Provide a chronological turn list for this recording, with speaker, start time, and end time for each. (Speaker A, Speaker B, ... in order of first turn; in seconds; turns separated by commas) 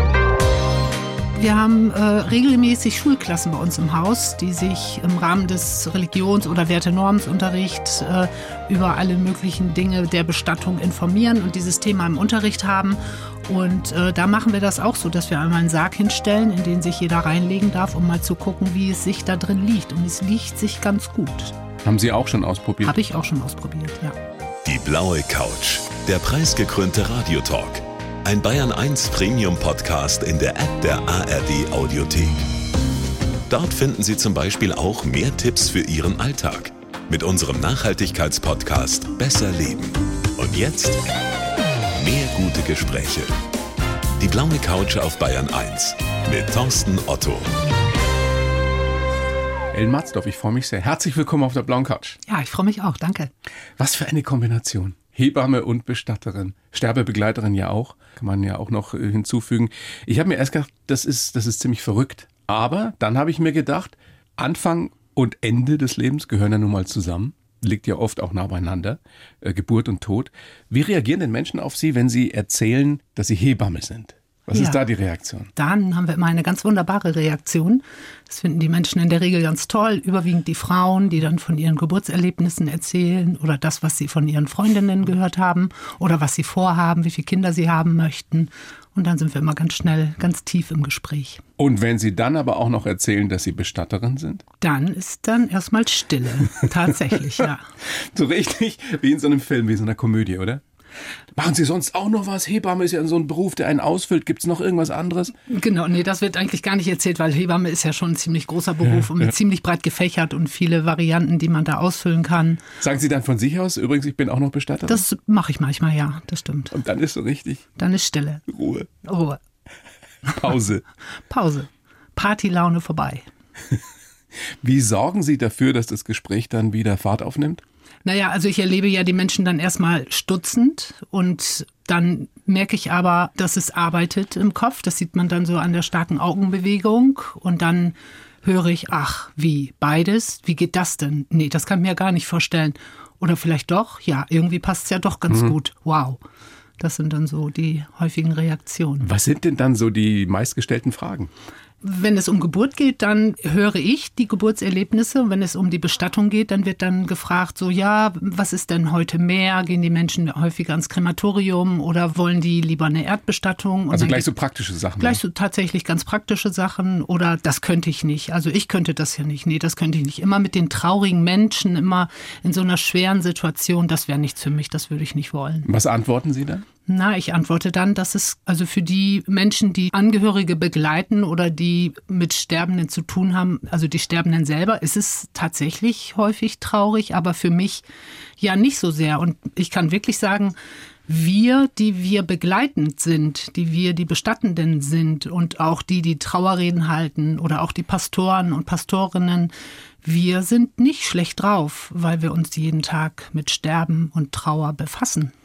Speaker A: 1.4-21.6, Speaker B: 21.8-23.0, Speaker A: 22.8-24.2, Speaker C: 24.6-32.5, Speaker C: 33.5-41.0, Speaker C: 42.0-43.3, Speaker C: 44.2-47.6, Speaker B: 49.7-52.2, Speaker A: 52.2-53.3, Speaker B: 53.8-75.5, Speaker A: 74.5-74.8, Speaker A: 75.5-91.4, Speaker B: 91.6-94.4, Speaker A: 94.6-97.6, Speaker B: 97.8-100.6, Speaker B: 101.3-105.3, Speaker A: 105.5-112.6, Speaker B: 112.8-115.0, Speaker A: 114.8-116.7, Speaker B: 116.7-117.7, Speaker A: 117.8-118.5, Speaker B: 118.5-118.9, Speaker A: 119.0-119.4, Speaker B: 120.2-120.8, Speaker A: 121.3-123.2, Speaker B: 124.6-127.6, Speaker A: 128.0-146.2, Speaker A: 146.8-149.1, Speaker B: 149.0-151.3, Speaker A: 151.8-164.3, Speaker B: 163.9-165.2, Speaker A: 165.0-175.7, Speaker B: 175.6-176.6, Speaker A: 176.8-187.8, Speaker A: 188.4-190.5, Speaker A: 191.1-199.5, Speaker A: 200.0-205.3